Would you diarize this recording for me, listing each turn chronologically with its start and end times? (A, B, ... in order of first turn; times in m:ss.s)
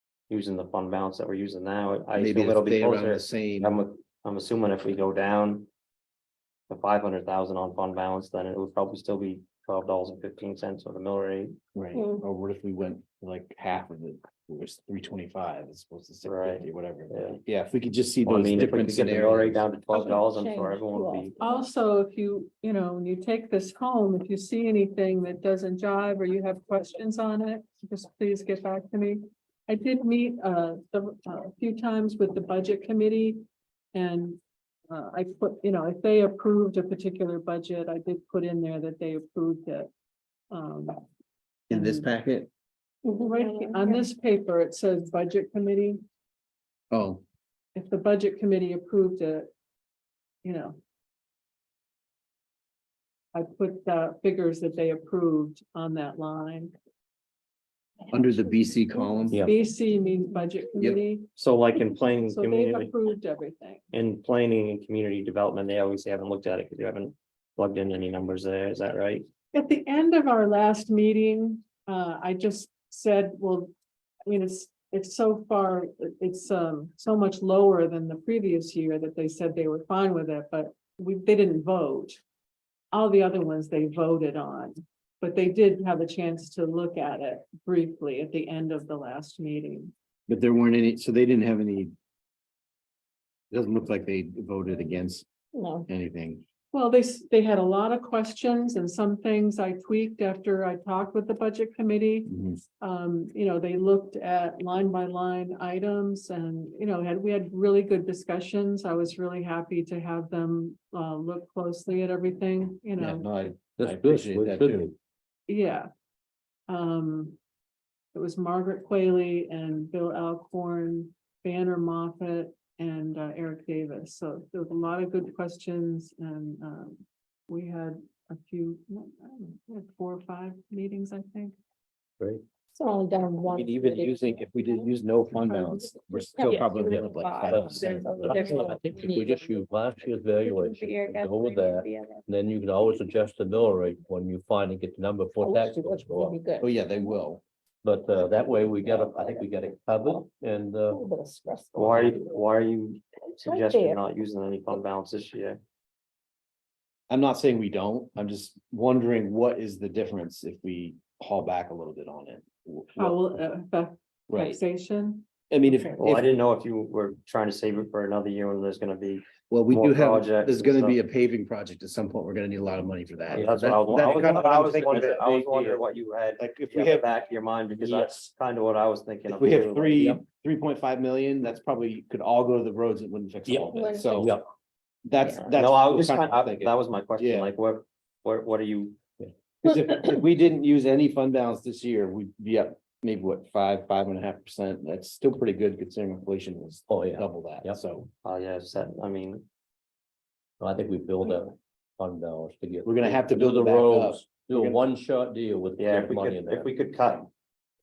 0:00.3-0:05.7 A
0:02.1-0:03.7 B
0:06.7-0:11.6 A
0:11.7-0:19.6 B
0:11.9-0:12.2 C
0:16.2-0:17.4 A
0:18.2-0:21.4 A
0:19.9-0:21.7 C
0:21.4-0:39.9 D
0:40.5-0:41.0 D
0:41.7-0:42.5 B
0:41.7-0:42.1 D
0:43.0-0:44.1 C
0:43.2-0:46.0 D
0:46.9-0:47.2 B
0:47.7-0:49.5 D
0:50.4-0:50.8 D
0:53.3-0:56.7 D
0:58.1-0:59.4 B
0:58.1-0:59.3 C
0:59.3-1:01.3 D
1:01.4-1:02.9 A
1:02.2-1:03.8 D
1:03.9-1:09.2 A
1:09.5-1:13.7 D
1:14.3-1:22.2 D
1:22.9-1:29.9 D
1:30.3-1:31.9 B
1:33.5-1:35.2 B
1:35.5-1:35.9 C
1:35.9-1:36.4 B
1:36.7-1:53.4 D
1:42.3-1:42.6 B
1:53.0-1:54.9 B
1:53.8-1:54.9 E
1:55.5-1:55.9 D
1:56.7-1:57.4 D
1:58.1-2:11.5 D
2:12.7-2:14.9 C
2:13.5-2:18.5 B
2:16.1-2:19.6 C
2:16.4-2:26.4 E
2:20.3-2:22.2 C
2:25.4-2:26.7 C
2:26.6-2:27.4 B
2:27.8-2:31.0 E
2:28.8-2:29.5 C
2:30.9-2:32.5 C
2:31.7-2:35.6 A
2:33.4-2:34.0 C
2:37.1-2:43.2 B
2:42.9-2:46.0 D
2:44.3-2:44.6 B
2:45.5-2:46.3 B
2:46.0-2:51.0 A
2:49.5-2:55.8 B
2:53.3-3:00.0 A
2:56.4-2:57.0 B
2:57.8-2:58.3 B
2:59.3-3:04.3 B
3:03.5-3:04.4 E
3:03.7-3:04.3 C
3:05.0-3:07.5 B
3:05.4-3:09.0 A
3:09.6-3:18.1 B
3:16.9-3:17.8 E
3:18.2-3:19.4 A
3:20.6-3:26.7 E
3:22.8-3:24.8 B
3:25.8-3:27.3 A